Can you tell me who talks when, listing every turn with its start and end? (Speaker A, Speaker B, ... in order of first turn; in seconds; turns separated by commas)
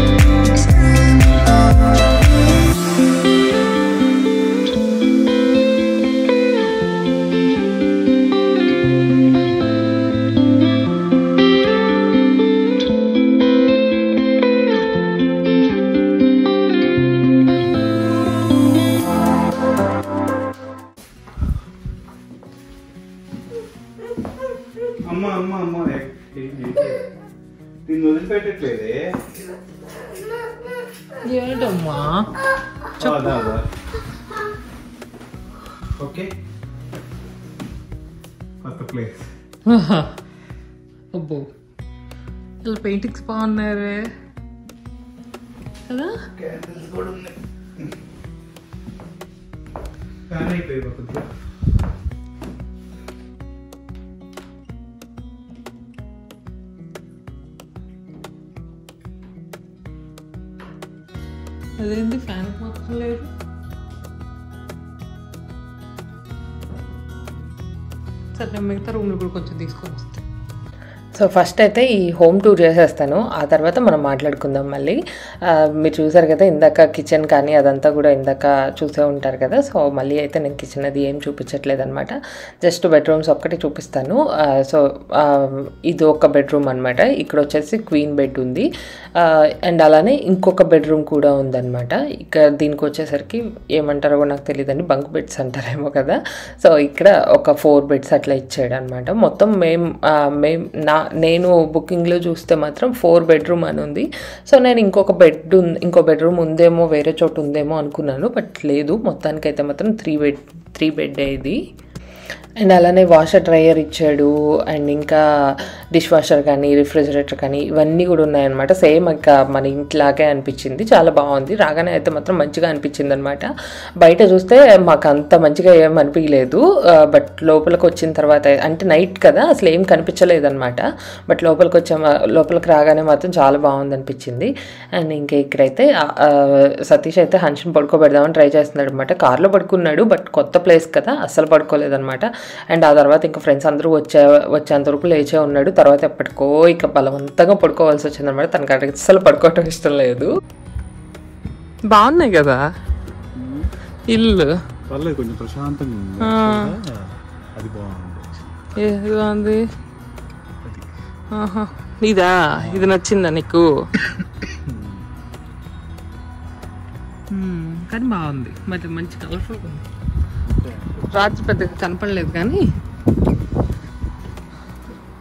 Speaker A: 25.0-27.1, Speaker A: 27.9-29.2, Speaker B: 31.2-32.3, Speaker A: 33.0-33.7, Speaker B: 33.0-33.4, Speaker A: 36.0-36.3, Speaker A: 38.6-39.3, Speaker B: 39.7-40.1, Speaker B: 41.1-41.5, Speaker B: 42.6-44.0, Speaker B: 45.9-46.2, Speaker A: 46.4-47.4, Speaker A: 50.3-51.3, Speaker B: 61.8-63.3, Speaker B: 68.4-70.2, Speaker B: 71.2-111.6, Speaker B: 112.6-123.5, Speaker B: 124.0-150.3, Speaker B: 151.9-152.6, Speaker A: 153.4-153.7, Speaker B: 154.1-154.5, Speaker A: 154.9-158.7, Speaker B: 156.2-156.7, Speaker B: 158.8-159.6, Speaker B: 161.3-163.7, Speaker A: 162.6-162.9, Speaker A: 164.5-165.1, Speaker B: 167.3-169.8, Speaker A: 170.5-171.4, Speaker B: 171.1-172.6